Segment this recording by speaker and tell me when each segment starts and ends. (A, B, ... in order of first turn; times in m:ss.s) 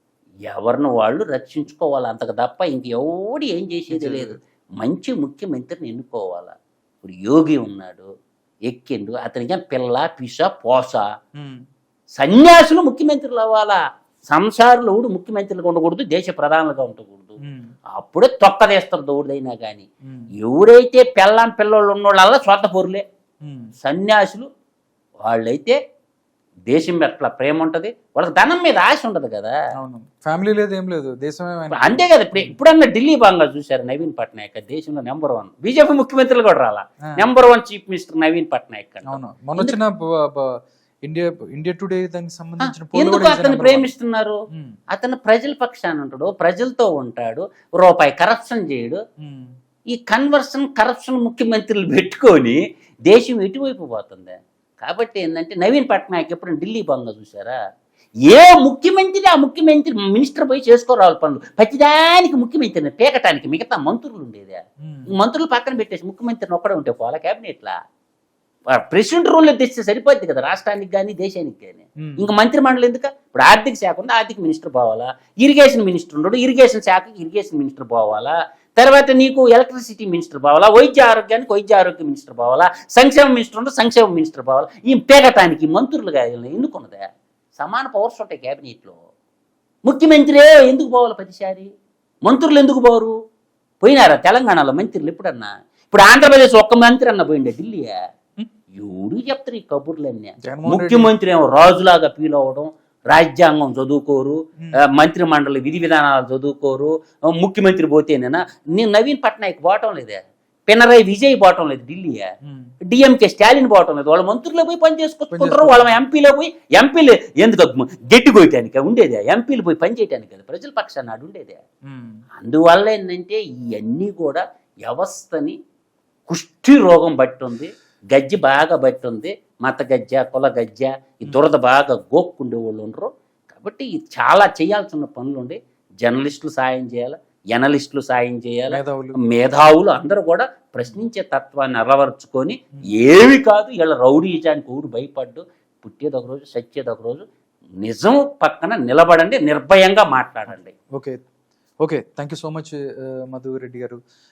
0:00.5-0:08.1 A
0:03.9-0:04.4 B
0:08.7-0:11.1 A
0:12.2-0:17.4 A
0:17.4-0:17.7 B
0:17.9-0:19.9 A
0:20.4-0:23.0 A
0:23.4-0:23.7 B
0:23.8-0:24.5 A
0:25.3-0:25.8 A
0:26.7-0:29.6 A
0:29.8-0:32.6 B
0:31.8-0:39.8 A
0:39.1-0:40.5 B
0:41.1-0:43.9 B
0:42.7-0:44.4 A
0:44.9-0:49.0 A
0:49.2-0:49.5 B
0:49.9-0:57.6 A
0:58.2-1:07.8 A
1:04.8-1:05.1 B
1:08.7-1:29.0 A
1:12.0-1:12.3 B
1:29.9-1:31.7 A
1:32.2-1:33.1 A
1:33.8-1:38.0 A
1:38.7-1:52.3 A
1:40.4-1:41.1 B
1:52.4-1:52.7 B
1:52.8-2:01.6 A
1:55.3-1:56.0 B
2:01.9-2:02.2 B
2:02.4-2:05.6 A
2:06.3-2:27.2 A
2:18.7-2:19.2 B
2:27.8-2:30.8 A
2:31.8-2:34.0 B